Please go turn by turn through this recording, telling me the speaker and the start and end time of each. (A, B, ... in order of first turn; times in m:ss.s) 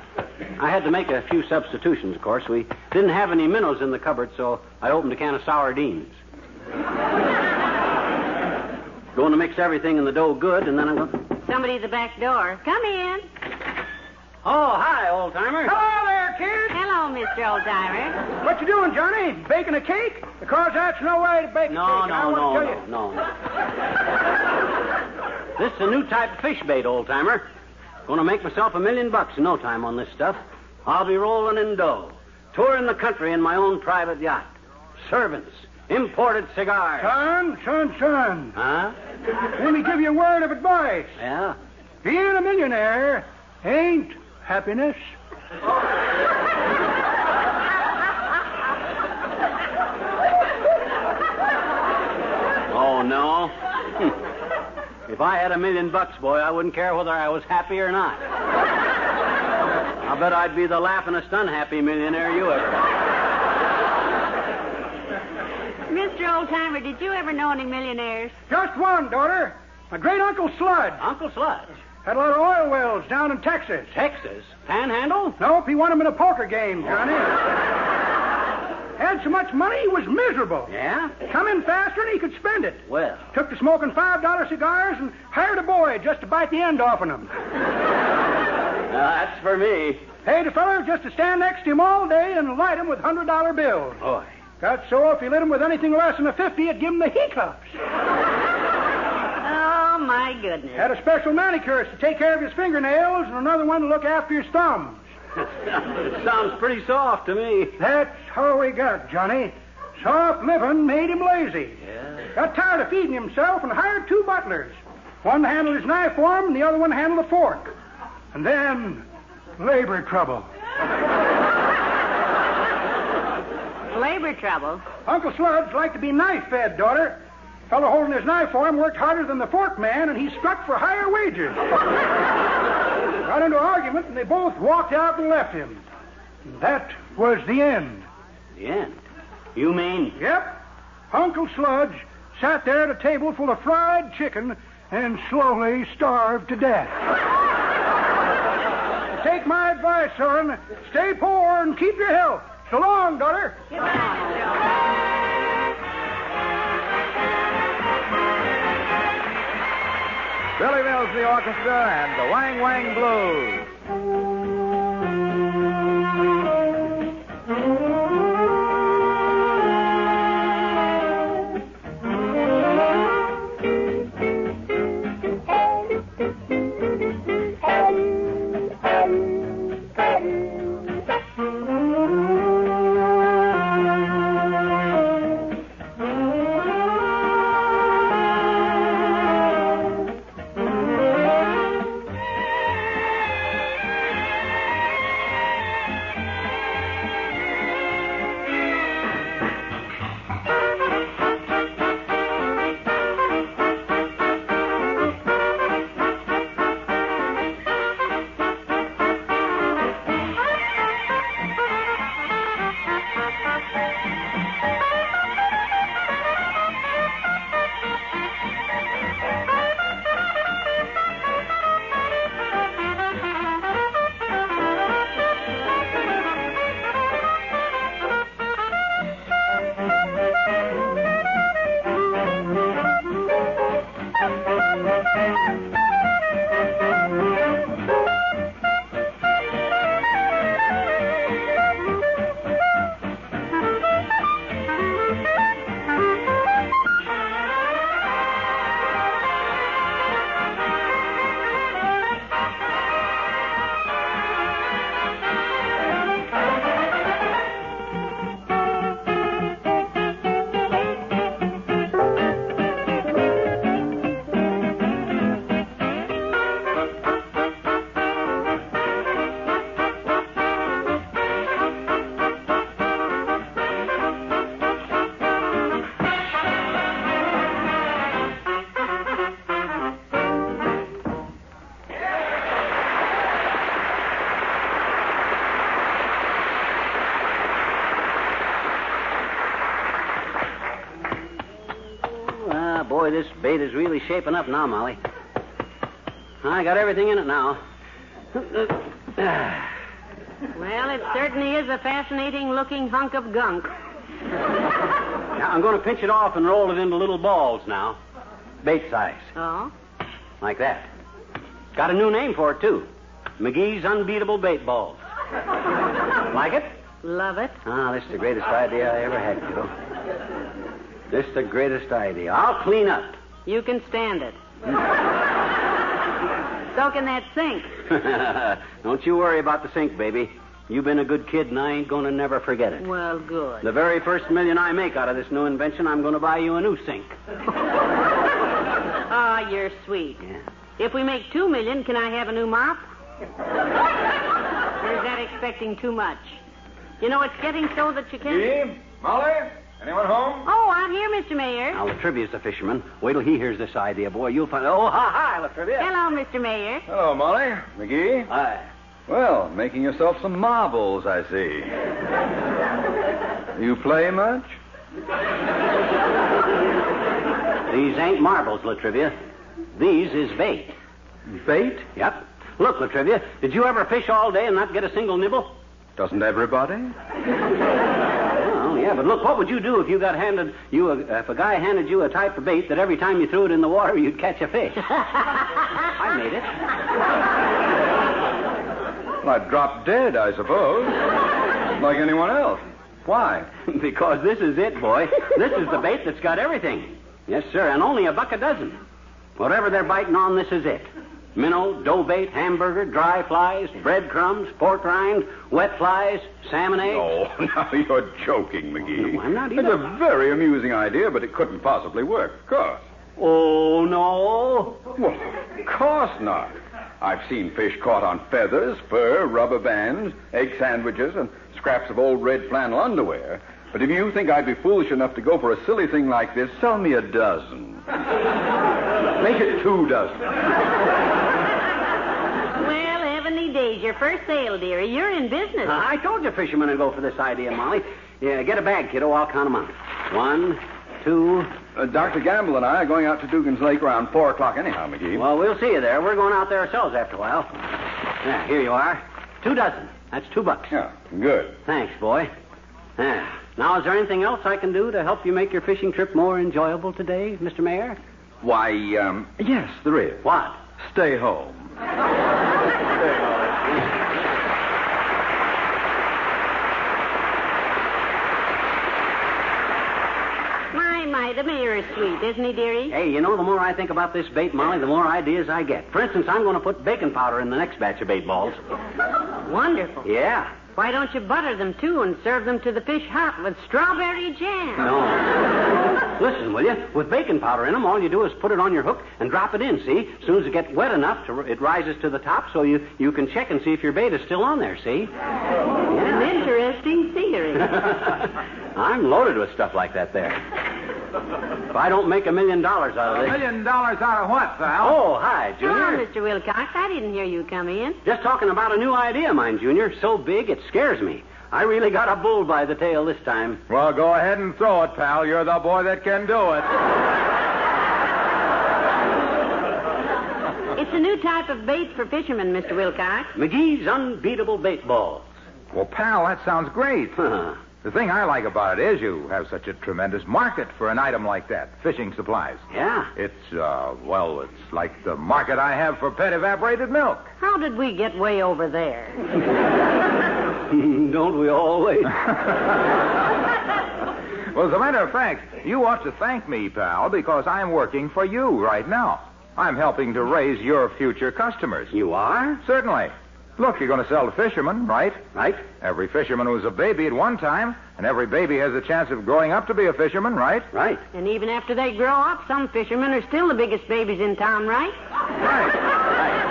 0:00.6-0:06.2 A
0:09.1-0:11.2 A
0:11.4-0:13.2 B
0:14.4-0:15.7 A
0:15.6-0:16.8 C
0:16.7-0:18.2 B
0:18.4-0:22.8 C
0:21.7-0:23.3 A
0:25.6-0:27.5 A
0:28.1-0:34.5 A
0:35.0-0:37.1 A
0:37.0-0:38.6 C
0:38.6-0:38.9 A
0:39.5-0:41.1 C
0:41.2-0:41.6 A
0:42.0-0:45.1 C
0:52.7-0:54.2 A
0:55.1-0:58.2 A
1:00.0-1:02.9 A
1:05.9-1:08.4 B
1:08.5-1:11.0 C
1:11.0-1:11.7 A
1:12.0-1:13.9 C
1:13.9-1:15.4 A
1:15.4-1:17.4 C
1:19.0-1:20.7 C
1:20.7-1:21.1 A
1:21.2-1:27.3 C
1:22.9-1:23.3 A
1:28.9-1:30.1 A
1:30.2-1:34.0 C
1:34.6-1:37.7 C
1:39.4-1:40.9 B
1:40.7-1:45.0 C
1:45.6-1:47.8 A
1:47.8-1:51.8 C
1:52.3-1:57.7 C
1:58.3-1:59.0 C
1:59.6-2:00.5 C
2:03.9-2:04.8 B
2:05.0-2:11.7 C
2:13.2-2:15.8 C
2:16.5-2:18.0 C
2:18.6-2:19.0 A
2:19.6-2:20.2 A
2:20.2-2:20.6 C
2:21.1-2:26.9 C
2:29.2-2:33.6 C
2:33.7-2:34.4 B
2:40.6-2:43.7 D
4:52.1-4:55.0 A
4:56.4-4:57.6 A
4:58.3-4:59.7 A
5:00.5-5:03.7 B
5:05.3-5:08.0 A
5:08.6-5:09.3 A
5:09.4-5:09.7 B
5:10.4-5:10.9 A
5:11.7-5:12.9 A
5:13.4-5:15.0 A
5:16.3-5:16.7 A
5:17.0-5:17.6 B
5:17.6-5:19.7 A
5:21.1-5:23.2 A
5:23.4-5:24.4 B
5:26.7-5:27.7 B
5:27.9-5:32.9 A
5:32.8-5:33.6 B
5:33.6-5:37.2 A
5:39.1-5:40.2 B
5:40.8-5:42.8 B
5:44.8-5:46.4 B
5:47.0-5:48.5 B
5:48.2-5:50.5 E
5:50.4-5:51.8 B
5:51.7-5:55.9 A
5:55.8-5:56.8 B
5:56.9-5:58.3 E
5:58.3-5:58.6 A
5:59.1-6:01.8 E
6:03.6-6:04.6 E
6:07.7-6:09.1 A
6:09.8-6:10.8 A
6:11.3-6:11.8 E
6:11.9-6:15.5 A
6:16.0-6:16.9 E
6:18.4-6:24.9 A
6:25.9-6:26.6 A
6:29.2-6:31.0 E
6:31.7-6:33.5 E
6:33.6-6:38.8 A
6:39.4-6:47.1 A
6:46.8-6:52.8 E
6:49.0-6:49.8 A
6:53.2-6:54.8 A
6:55.0-7:07.8 E
7:09.2-7:10.4 E
7:12.6-7:15.8 B
7:15.6-7:21.5 A
7:21.8-7:25.2 E
7:25.1-7:27.5 A
7:28.2-7:30.7 A
7:30.7-7:31.6 E
7:31.6-7:32.3 A
7:33.0-7:38.0 A
7:38.4-7:40.2 E
7:40.2-7:40.6 A
7:40.8-7:41.7 E
7:50.7-7:52.9 B
7:52.9-7:58.6 A
7:59.5-8:04.9 B
8:00.0-8:00.6 A
8:04.8-8:05.3 A
8:06.0-8:15.1 A
8:15.9-8:16.3 A
8:15.9-8:17.9 B
8:17.6-8:20.4 A
8:21.7-8:23.4 A
8:23.1-8:25.0 D
8:24.8-8:26.0 A
8:25.6-8:28.0 B
8:28.0-8:33.6 A
8:33.7-8:36.7 D
8:40.7-8:43.3 B
8:43.3-8:45.3 A
8:45.7-8:52.6 D
8:47.3-8:47.5 A
8:52.7-8:53.1 A
8:53.1-8:57.3 D
8:57.4-8:59.2 B
9:00.7-9:02.2 A
9:04.5-9:11.9 D
9:11.9-9:12.6 A
9:12.6-9:15.2 D
9:15.3-9:15.6 A
9:15.8-9:20.7 D
9:20.7-9:21.0 A
9:21.1-9:24.9 B
9:25.4-9:25.7 D